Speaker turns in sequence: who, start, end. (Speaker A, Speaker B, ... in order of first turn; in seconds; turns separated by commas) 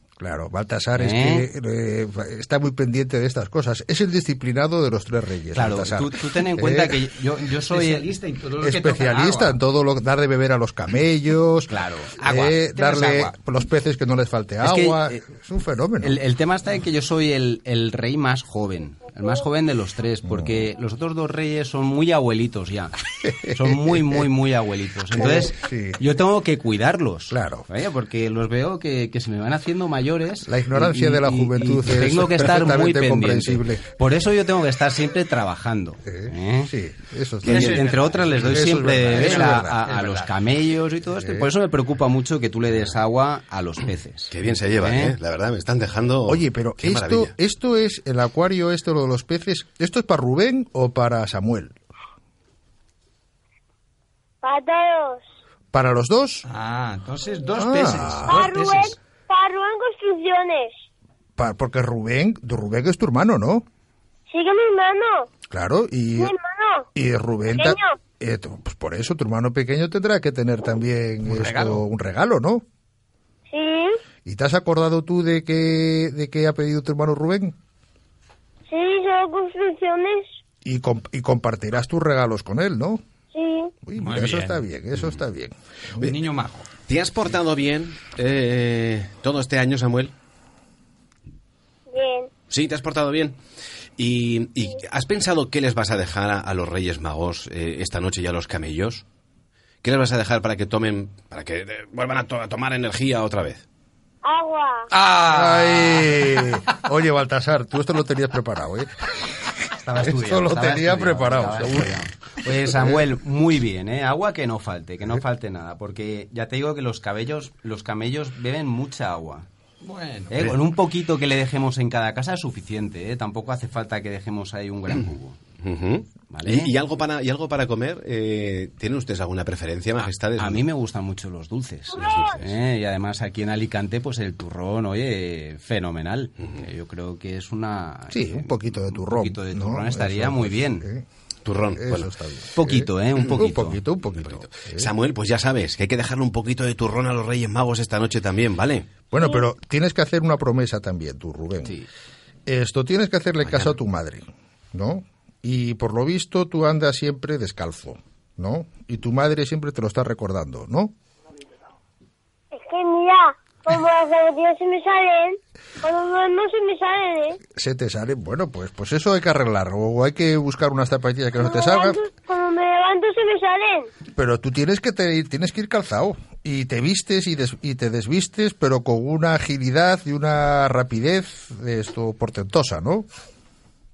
Speaker A: 0.2-7.1, Speaker B: 0.9-1.5, Speaker B: 5.5-8.1, Speaker C: 7.7-9.6, Speaker A: 8.6-16.2, Speaker B: 11.7-12.4, Speaker C: 12.7-13.3, Speaker B: 14.6-15.2, Speaker B: 16.0-36.7, Speaker A: 20.2-20.7, Speaker A: 23.6-24.2, Speaker A: 25.1-26.0, Speaker A: 27.3-27.6, Speaker A: 30.4-33.8, Speaker A: 36.0-39.8, Speaker B: 37.4-45.2, Speaker C: 37.5-38.6, Speaker C: 39.2-40.3, Speaker A: 41.0-41.5, Speaker D: 44.3-47.3, Speaker A: 46.2-51.8, Speaker E: 54.4-55.2, Speaker A: 55.7-56.4, Speaker C: 56.5-59.0, Speaker A: 57.6-58.4, Speaker E: 58.2-60.7, Speaker A: 61.4-63.6, Speaker E: 64.3-65.3, Speaker A: 65.5-66.3, Speaker E: 66.2-66.9, Speaker A: 66.9-72.6, Speaker E: 67.5-68.0, Speaker C: 71.3-71.8, Speaker E: 73.5-74.0, Speaker A: 74.2-77.5, Speaker E: 78.7-80.3, Speaker A: 80.6-83.0, Speaker E: 83.3-83.7, Speaker A: 83.8-86.1, Speaker C: 84.0-84.6, Speaker C: 86.0-86.7, Speaker D: 86.9-90.1, Speaker E: 91.9-92.3, Speaker D: 92.5-93.4, Speaker D: 94.0-99.0, Speaker D: 99.8-103.6, Speaker E: 104.2-104.9, Speaker C: 104.9-106.5, Speaker A: 105.2-112.0, Speaker B: 109.8-119.5, Speaker A: 112.6-113.0, Speaker C: 119.8-120.3, Speaker B: 120.3-125.4, Speaker D: 125.6-130.6, Speaker B: 126.3-126.7, Speaker B: 130.4-140.9, Speaker E: 131.9-132.3, Speaker D: 131.9-132.5, Speaker A: 138.1-141.1, Speaker D: 141.4-142.1, Speaker A: 141.7-144.9, Speaker B: 142.6-143.8, Speaker D: 144.2-148.9, Speaker A: 149.1-151.8, Speaker A: 152.5-160.9, Speaker D: 153.4-153.8, Speaker E: 162.5-167.4, Speaker A: 167.5-172.0, Speaker E: 171.4-173.9, Speaker A: 174.1-183.1